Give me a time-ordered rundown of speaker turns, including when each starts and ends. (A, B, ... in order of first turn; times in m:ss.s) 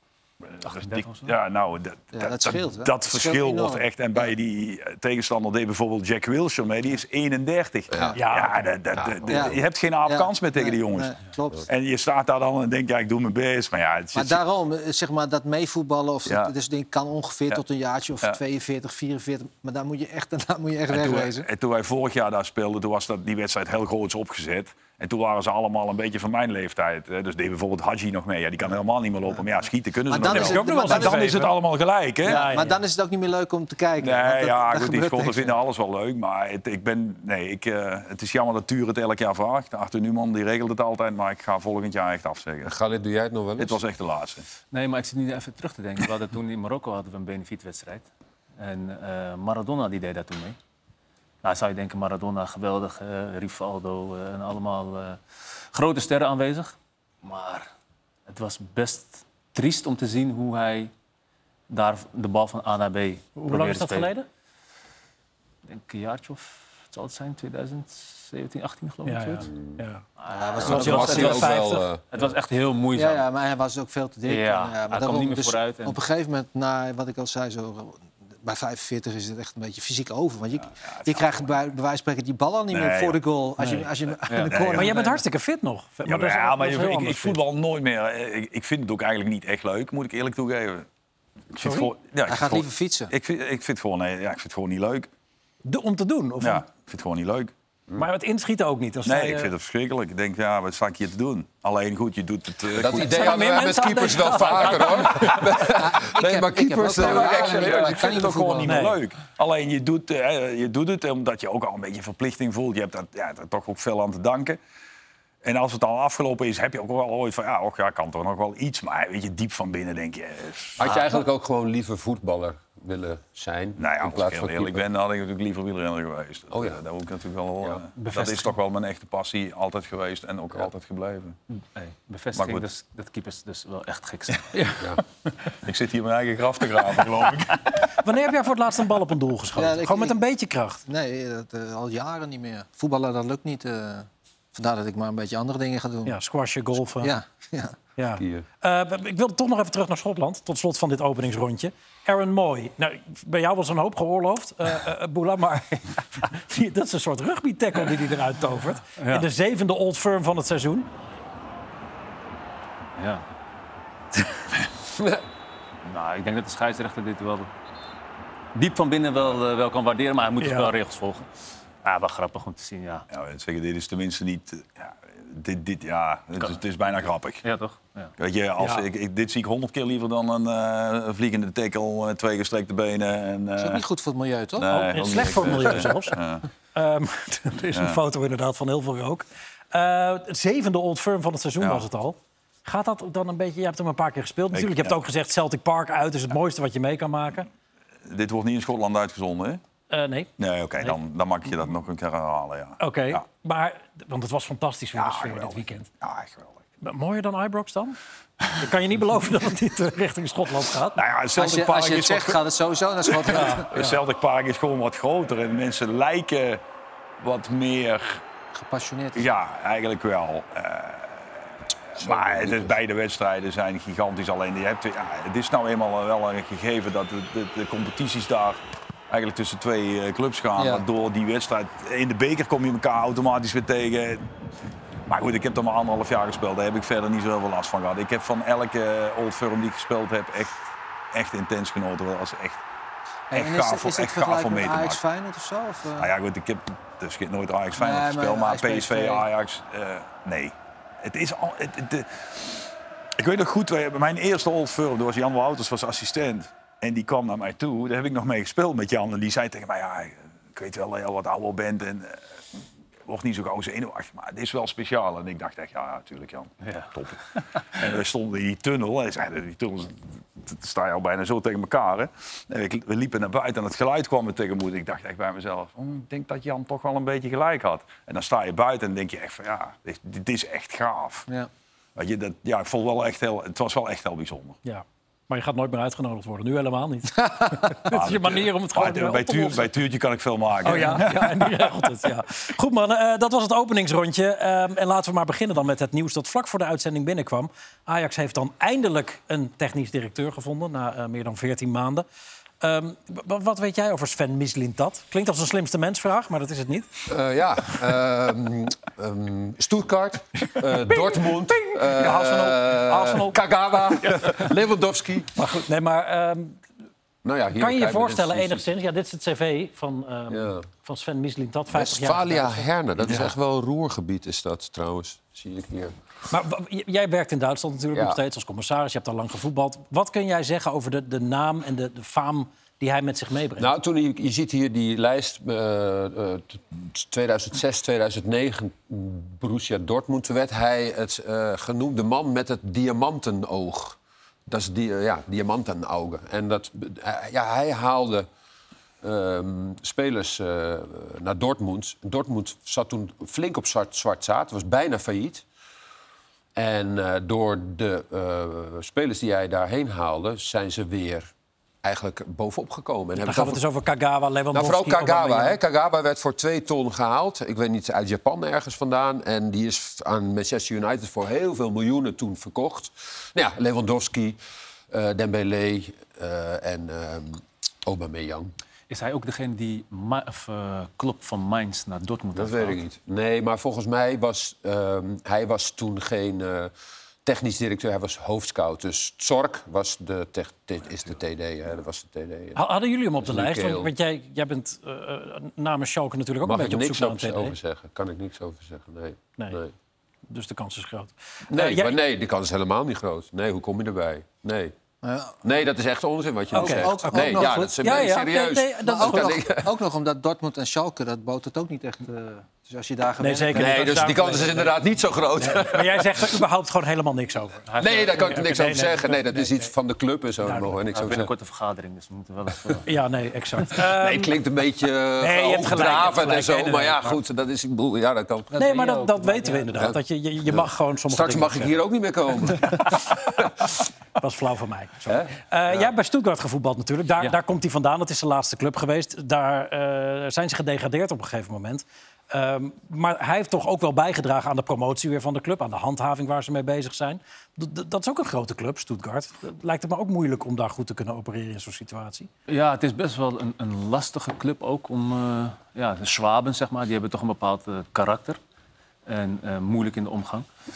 0:00.5-0:11.1 A
0:00.6-0:01.3 B
0:02.1-0:04.3 C
0:07.9-0:08.2 D
0:08.1-0:08.6 E
0:08.9-0:09.6 D
0:09.3-0:11.7 C
0:11.7-0:14.4 A
0:14.1-0:21.4 C
0:16.2-0:16.5 A
0:20.9-0:32.5 A
0:30.1-0:31.5 C
0:30.2-0:31.5 E
0:32.2-0:32.8 E
0:32.2-0:35.6 C
0:34.0-0:42.7 A
0:42.6-0:43.8 D
0:43.6-0:44.4 A
0:44.7-0:48.1 B
0:48.6-0:50.6 B
0:51.4-0:55.2 B
0:55.7-0:57.7 B
0:58.3-1:00.9 B
1:01.7-1:04.1 B
1:03.4-1:04.3 E
1:05.6-1:09.5 B
1:09.0-1:10.0 E
1:09.5-1:09.8 D
1:10.2-1:11.5 B
1:10.3-1:11.5 C
1:10.6-1:12.0 D
1:10.6-1:11.8 E
1:12.1-1:13.2 B
1:12.9-1:25.2 C
1:14.2-1:16.0 B
1:20.8-1:21.5 A
1:22.7-1:23.2 A
1:24.3-1:24.6 B
1:24.5-1:24.9 A
1:24.7-1:27.4 E
1:26.0-1:30.8 A
1:31.5-1:35.1 A
1:31.6-1:31.9 E
1:32.3-1:33.1 C
1:35.6-1:36.6 E
1:36.4-1:37.5 A
1:38.0-1:39.5 E
1:39.0-1:43.3 A
1:42.8-1:48.2 D
1:42.9-1:45.4 E
1:45.6-1:48.9 C
1:46.9-1:54.6 A
1:48.6-1:49.0 E
1:55.4-2:00.8 A
2:00.8-2:04.8 D
2:03.8-2:11.4 A
2:06.5-2:06.8 D
2:08.0-2:08.5 B
2:11.7-2:14.6 B
2:12.3-2:12.6 A
2:15.5-2:17.8 A
2:18.0-2:20.8 E
2:19.6-2:20.2 C
2:20.8-2:26.2 C
2:26.0-2:27.1 E
2:26.9-2:27.8 C
2:28.0-2:40.9 E
2:28.2-2:28.4 D
2:39.0-2:39.2 B
2:43.0-2:43.2 B
2:45.8-2:47.5 B
2:48.5-2:51.3 B
2:50.4-2:50.7 E
2:51.8-2:53.0 B
2:53.1-2:57.4 A
2:57.4-2:58.1 B
2:58.2-3:03.8 A
2:58.6-2:58.8 E
3:03.6-3:05.5 C
3:04.6-3:06.4 A
3:04.7-3:06.2 E
3:06.7-3:17.5 E
3:07.7-3:08.0 A
3:11.6-3:11.8 A
3:14.5-3:15.0 A
3:18.0-3:19.6 A
3:19.9-3:21.0 E
3:20.4-3:23.2 A
3:22.8-3:25.9 E
3:24.9-3:26.6 A
3:26.8-3:28.0 E
3:28.6-3:31.0 E
3:31.0-3:32.4 A
3:31.4-3:33.7 C
3:33.1-3:36.6 A
3:33.3-3:34.0 E
3:37.2-3:38.2 A
3:38.5-3:39.3 C
3:39.1-3:41.3 A
3:41.9-3:48.6 A
3:42.0-3:42.7 D
3:49.1-3:54.2 A
3:50.6-3:50.8 C
3:55.1-4:00.5 A
4:01.1-4:02.6 A
4:03.3-4:06.1 C
4:03.3-4:05.0 A
4:06.0-4:12.6 A
4:07.8-4:09.2 C
4:13.2-4:22.2 A
4:23.0-4:27.2 A
4:26.6-4:26.9 B
4:27.7-4:41.3 A
4:42.0-4:44.6 A
4:44.6-4:49.6 E
4:47.9-4:51.7 A
4:50.6-5:02.0 E
5:02.6-5:06.9 E
5:07.1-5:15.3 D
5:10.6-5:13.3 E
5:15.4-5:16.6 E
5:17.2-5:18.6 D
5:17.5-5:22.7 E
5:20.3-5:20.6 D
5:21.7-5:25.9 D
5:26.3-5:33.7 E
5:27.9-5:28.2 D
5:33.6-5:48.3 D
5:49.0-5:55.4 D
5:56.5-6:01.3 D
6:01.8-6:03.6 D
6:03.2-6:05.6 E
6:04.5-6:14.4 D
6:14.9-6:18.5 D
6:18.9-6:22.8 B
6:22.3-6:26.7 D
6:27.2-6:32.6 D
6:32.6-6:37.5 E
6:33.2-6:33.9 D
6:36.4-6:39.7 D
6:40.3-6:42.0 E
6:41.5-6:44.7 D
6:45.0-6:45.4 C
6:45.4-6:49.8 D
6:46.5-6:49.4 E
6:46.5-6:48.2 C
6:48.8-6:54.6 C
6:53.2-6:54.7 E
6:53.5-6:56.3 D
6:55.4-6:59.6 E
6:57.7-6:58.3 B
6:57.8-7:01.3 D
7:00.4-7:00.7 E
7:00.9-7:02.8 B
7:02.8-7:04.3 E
7:03.7-7:08.5 D
7:05.2-7:07.2 E
7:08.5-7:09.6 C
7:08.5-7:11.7 E
7:09.7-7:13.4 D
7:14.2-7:32.3 E
7:15.1-7:15.9 D
7:32.5-7:38.4 B
7:39.1-7:40.5 B